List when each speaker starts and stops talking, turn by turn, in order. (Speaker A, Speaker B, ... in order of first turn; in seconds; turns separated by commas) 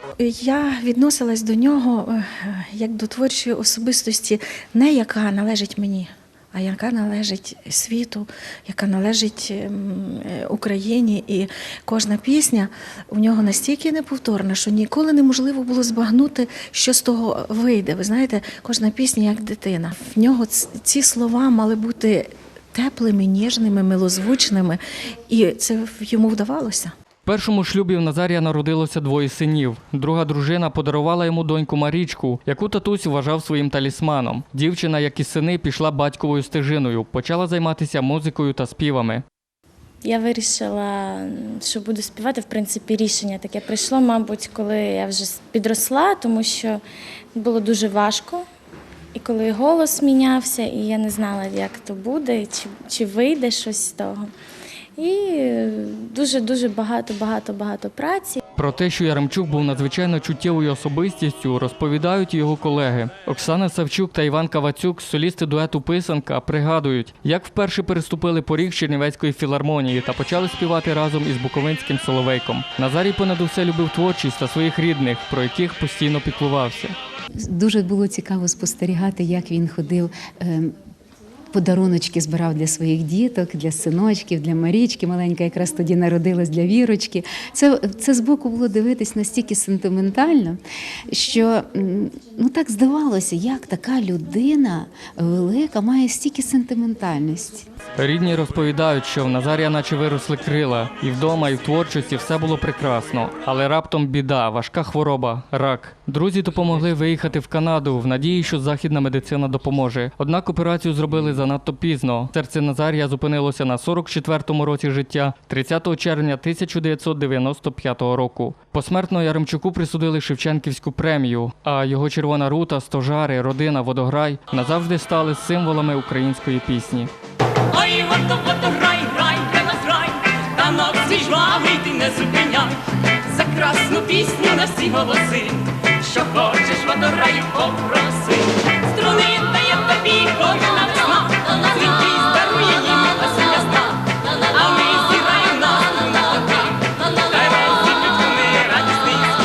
Speaker A: 0.2-26.9, Speaker B: 27.3-39.2, Speaker C: 40.0-46.8, Speaker C: 47.4-48.4, Speaker C: 49.1-54.3, Speaker C: 55.0-58.4, Speaker B: 58.6-77.0, Speaker D: 77.4-80.7, Speaker D: 81.5-97.7, Speaker B: 98.0-127.1, Speaker E: 127.7-143.9, Speaker E: 144.5-149.3